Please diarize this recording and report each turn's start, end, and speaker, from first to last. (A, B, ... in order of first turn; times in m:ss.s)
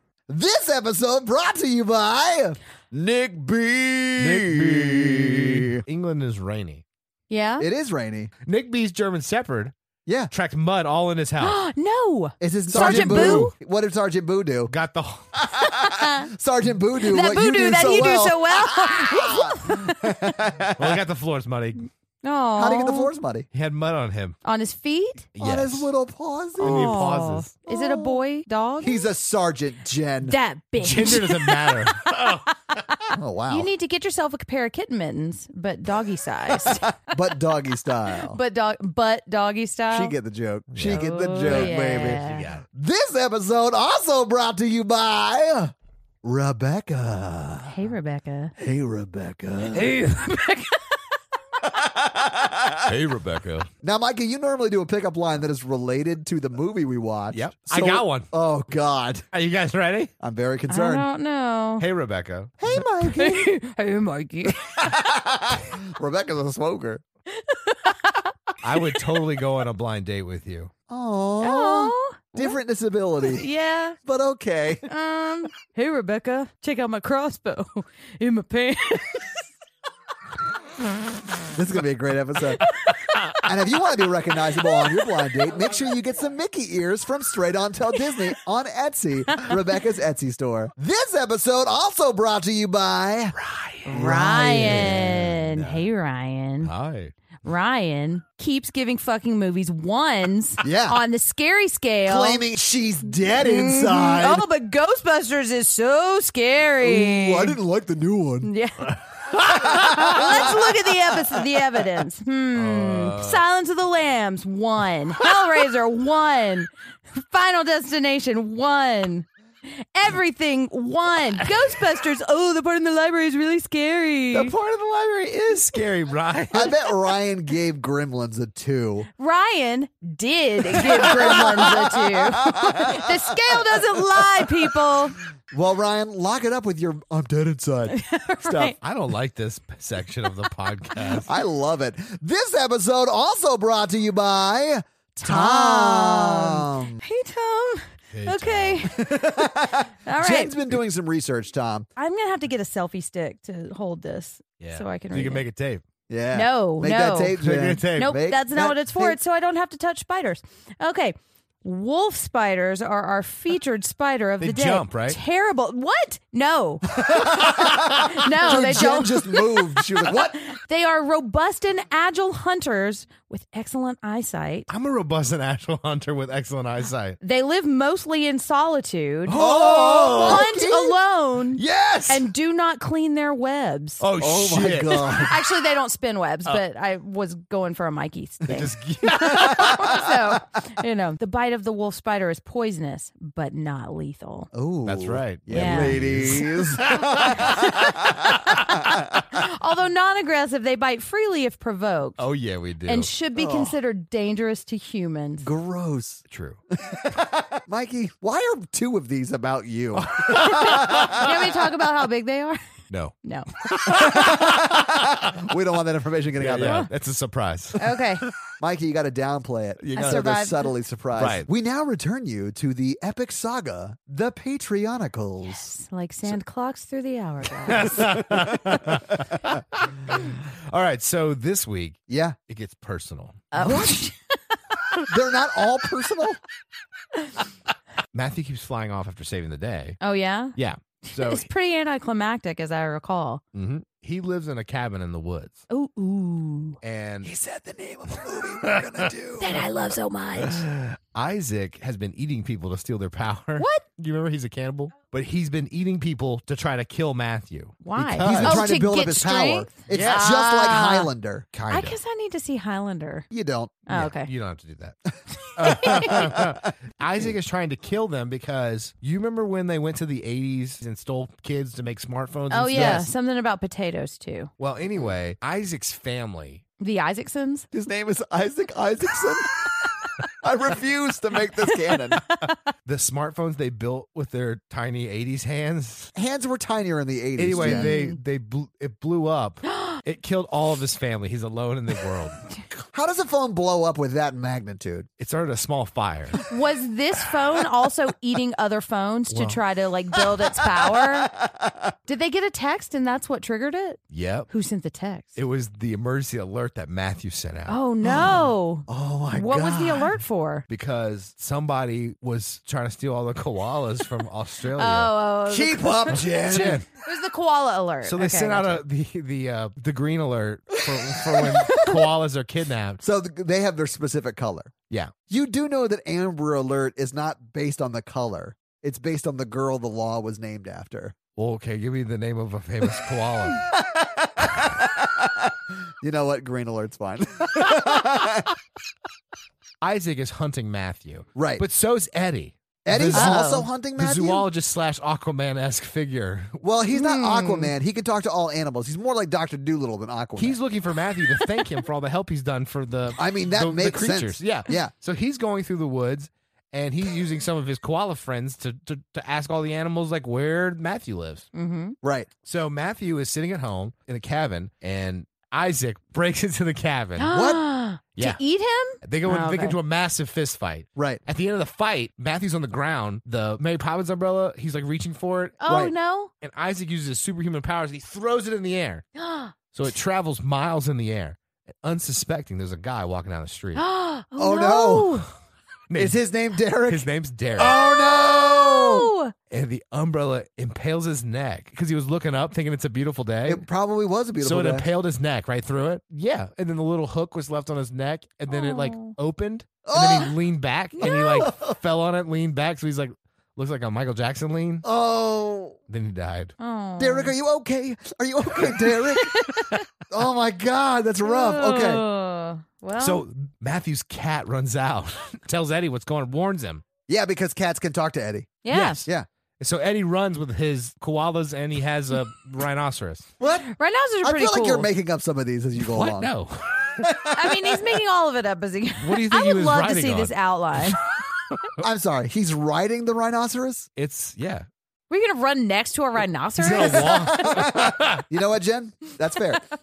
0:00.3-0:05.8 A
0:04.2-0:06.8 B
0:07.3-0:07.7 C
0:07.6-0:08.3 A
0:08.4-0:09.7 B
0:10.0-0:10.3 A
0:10.3-0:11.6 B
0:11.4-0:13.5 C
0:12.4-0:14.7 A
0:12.7-0:13.5 B
0:14.7-0:15.4 B
0:15.4-0:21.0 A
0:15.5-0:16.3 C
0:17.0-0:20.4 C
0:20.8-0:21.9 B
0:22.2-0:23.1 C
0:22.6-0:23.5 A
0:23.5-0:24.4 B
0:24.4-0:25.3 C
0:25.4-0:25.9 B
0:25.4-0:27.1 A
0:26.6-0:29.1 C
0:26.6-0:27.5 B
0:27.7-0:28.2 A
0:28.8-0:30.3 A
0:30.2-0:37.0 C
0:30.8-0:32.4 B
0:33.1-0:33.7 A
0:36.9-0:38.4 A
0:38.1-0:40.1 C
0:39.9-0:47.7 A
0:40.7-0:42.6 B
0:40.9-0:42.4 C
0:47.6-0:48.5 C
0:48.6-0:50.0 A
0:49.7-0:50.4 B
0:50.2-0:51.0 C
0:51.6-0:52.9 A
0:52.8-0:53.7 B
0:53.8-0:59.2 A
0:57.3-0:58.3 B
0:59.3-1:00.1 B
1:00.2-1:01.0 A
1:00.7-1:01.8 C
1:01.8-1:02.6 B
1:02.6-1:03.5 A
1:03.0-1:04.7 C
1:04.6-1:07.0 A
1:07.3-1:08.3 C
1:08.6-1:10.7 B
1:10.9-1:13.5 A
1:11.4-1:12.6 C
1:13.2-1:14.0 C
1:14.0-1:14.8 A
1:14.8-1:19.3 C
1:21.5-1:22.7 A
1:23.4-1:33.4 A
1:29.3-1:29.6 C
1:33.4-1:33.9 B
1:33.8-1:36.7 C
1:33.9-1:35.4 A
1:34.6-1:35.7 B
1:36.6-1:37.1 B
1:37.4-1:42.4 C
1:40.6-1:41.0 A
1:42.0-1:44.5 A
1:43.4-1:47.6 C
1:46.8-1:48.5 A
1:48.4-1:49.0 C
1:49.4-1:50.0 B
1:49.5-1:51.0 A
1:49.6-1:59.3 C
1:52.5-1:53.4 B
1:59.8-2:04.5 C
2:04.3-2:06.8 B
2:06.5-2:09.1 A
2:09.2-2:15.2 C
2:10.7-2:14.5 A
2:15.5-2:18.7 A
2:17.9-2:18.8 C
2:18.8-2:21.3 B
2:21.2-2:27.0 A
2:25.2-2:30.5 C
2:28.1-2:28.9 B
2:28.9-2:31.9 A
2:32.0-2:35.4 C
2:34.6-2:35.8 B
2:36.1-2:39.2 A
2:36.3-2:37.4 C
2:37.4-2:38.1 B
2:37.9-2:54.7 C
2:44.4-2:45.2 B
2:47.0-2:50.4 A
2:47.1-2:47.8 B
2:54.7-2:57.2 B
2:57.2-2:59.4 C
2:59.3-3:00.5 B
2:59.3-3:01.0 A
3:00.2-3:04.0 C
3:01.6-3:02.1 B
3:04.0-3:05.1 B
3:04.2-3:05.4 A
3:04.9-3:14.5 C
3:08.5-3:10.0 B
3:09.6-3:10.0 A
3:14.5-3:19.1 A
3:14.8-3:18.8 B
3:15.5-3:16.4 C
3:17.3-3:17.7 C
3:19.3-3:22.2 C
3:22.2-3:23.1 B
3:22.8-3:25.5 C
3:23.4-3:23.8 A
3:25.4-3:26.2 A
3:26.3-3:26.6 B
3:26.8-3:31.3 A
3:29.9-3:31.3 B
3:30.3-3:32.7 C
3:33.2-3:33.9 C
3:33.7-3:34.9 B
3:33.8-3:36.9 A
3:36.4-3:37.9 B
3:36.6-3:36.9 C
3:37.8-3:38.2 C
3:38.6-3:45.6 A
3:39.8-3:40.2 B
3:39.9-3:40.7 C
3:41.2-3:41.5 B
3:45.4-3:48.1 C
3:47.6-3:53.4 B
3:48.2-3:49.0 A
3:52.1-3:52.4 A
3:53.5-3:55.0 C
3:53.6-3:54.0 A
3:55.1-3:56.4 A
3:58.1-4:00.0 B
4:00.0-4:00.5 C
4:00.6-4:01.5 B
4:01.1-4:03.4 C
4:03.5-4:05.6 B
4:05.7-4:06.8 C
4:06.8-4:07.3 B
4:07.2-4:09.6 A
4:08.6-4:09.1 B
4:09.4-4:10.6 C
4:10.4-4:18.6 B
4:13.6-4:13.8 C
4:17.8-4:21.1 C
4:18.2-4:21.4 A
4:19.9-4:20.3 B
4:21.5-4:22.0 B
4:21.7-4:23.3 C
4:23.3-4:23.8 A
4:23.9-4:24.3 C
4:23.9-4:25.0 B
4:25.5-4:33.1 B
4:25.6-4:26.2 C
4:25.7-4:26.6 A
4:32.5-4:34.5 C
4:32.7-4:33.0 A
4:34.6-4:36.6 B
4:36.8-4:37.7 C
4:37.7-4:39.7 A
4:40.4-4:42.2 A
4:41.7-4:42.6 C
4:42.8-4:46.1 B
4:46.1-4:47.9 A
4:47.4-4:52.4 B
4:47.6-4:48.2 C
4:49.7-4:50.0 C
4:52.9-4:55.1 A
4:55.2-4:56.4 B
4:56.4-5:01.3 C
4:59.3-4:59.6 B
5:00.6-5:01.9 A
5:02.1-5:05.4 C
5:04.1-5:04.5 B
5:05.4-5:08.3 B
5:07.7-5:10.6 C
5:08.0-5:10.2 A
5:10.7-5:15.1 B
5:14.8-5:16.2 C
5:15.5-5:16.8 A
5:16.4-5:16.9 B
5:17.0-5:18.8 C
5:18.0-5:23.0 B
5:20.8-5:21.6 A
5:21.5-5:22.0 C
5:23.0-5:24.7 A
5:25.3-5:31.1 A
5:31.4-5:33.7 B
5:33.7-5:38.5 A
5:39.8-5:46.6 B
5:41.4-5:41.6 A
5:42.8-5:44.4 A
5:43.1-5:43.7 C
5:46.6-5:50.6 A
5:46.9-5:47.7 C
5:50.4-6:01.4 B
5:53.2-5:54.9 A
6:01.5-6:02.0 C
6:02.0-6:02.3 A
6:02.4-6:07.3 B
6:07.2-6:09.8 C
6:07.3-6:07.6 A
6:09.0-6:15.6 B
6:15.6-6:16.3 C
6:16.4-6:19.0 B
6:19.2-6:19.5 C
6:19.7-6:23.8 B
6:23.7-6:25.3 C
6:24.4-6:25.2 A
6:25.9-6:26.2 B
6:25.9-6:29.1 A
6:26.8-6:27.7 B
6:27.6-6:29.3 C
6:29.5-6:33.6 B
6:33.4-6:34.8 A
6:34.4-6:44.8 B
6:38.5-6:39.1 C
6:39.8-6:40.3 A
6:41.0-6:41.8 A
6:41.0-6:41.5 C
6:44.8-6:45.8 A
6:45.9-6:46.5 B
6:46.6-6:47.3 C
6:47.0-6:49.6 A
6:49.3-6:49.8 C
6:50.1-6:52.0 A
6:51.2-6:53.2 C
6:53.0-6:56.8 B
6:57.1-6:59.3 A
6:58.6-6:59.0 C
6:58.7-6:59.1 B
6:59.6-7:03.3 B
7:03.4-7:03.7 A
7:03.6-7:04.9 C
7:04.2-7:06.3 A
7:05.8-7:07.0 B
7:07.0-7:07.8 A
7:07.3-7:11.0 C
7:09.0-7:10.9 B
7:11.8-7:13.9 A
7:14.0-7:14.6 B
7:15.1-7:17.7 C
7:16.6-7:18.2 B
7:16.8-7:19.6 A